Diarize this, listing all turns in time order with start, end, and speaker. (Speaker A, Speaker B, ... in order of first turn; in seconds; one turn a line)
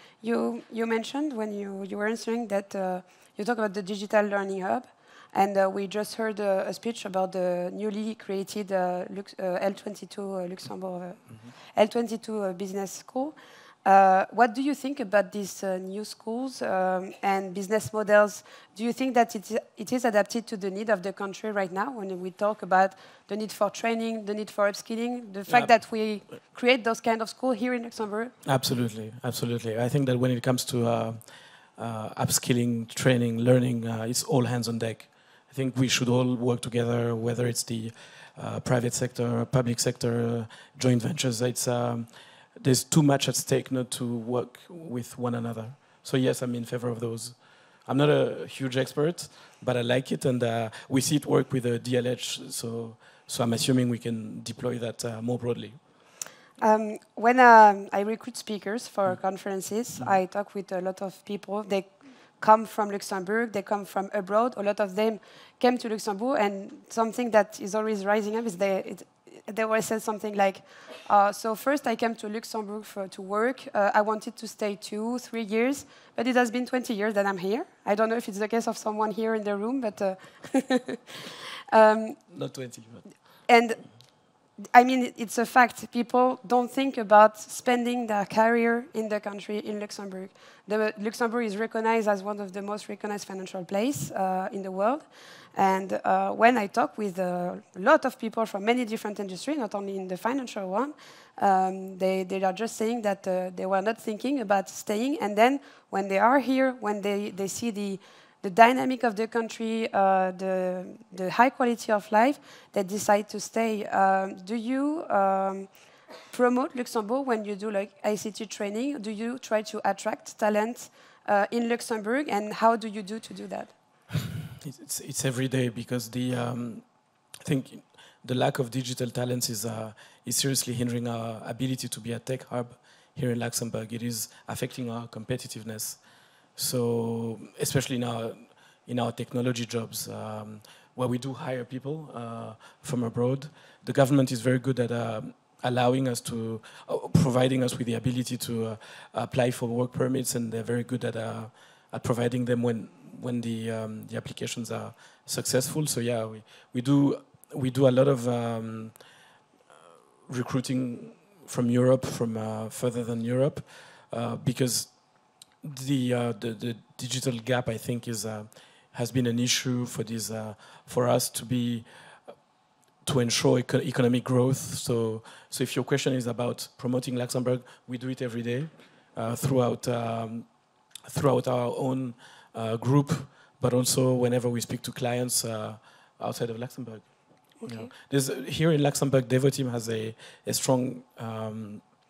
Speaker A: 0.2-28.3
Speaker B: 25.5-25.7
Speaker B: 28.4-31.2
Speaker B: 31.8-55.8
Speaker A: 56.6-82.2
Speaker B: 82.3-83.1
Speaker A: 83.5-83.9
Speaker A: 84.6-115.7
Speaker A: 116.3-123.7
Speaker B: 124.6-126.8
Speaker B: 127.4-136.0
Speaker B: 136.6-159.0
Speaker B: 160.3-165.0
Speaker B: 165.6-171.9
Speaker B: 173.0-180.5
Speaker B: 181.1-187.1
Speaker A: 187.6-187.9
Speaker B: 187.7-191.9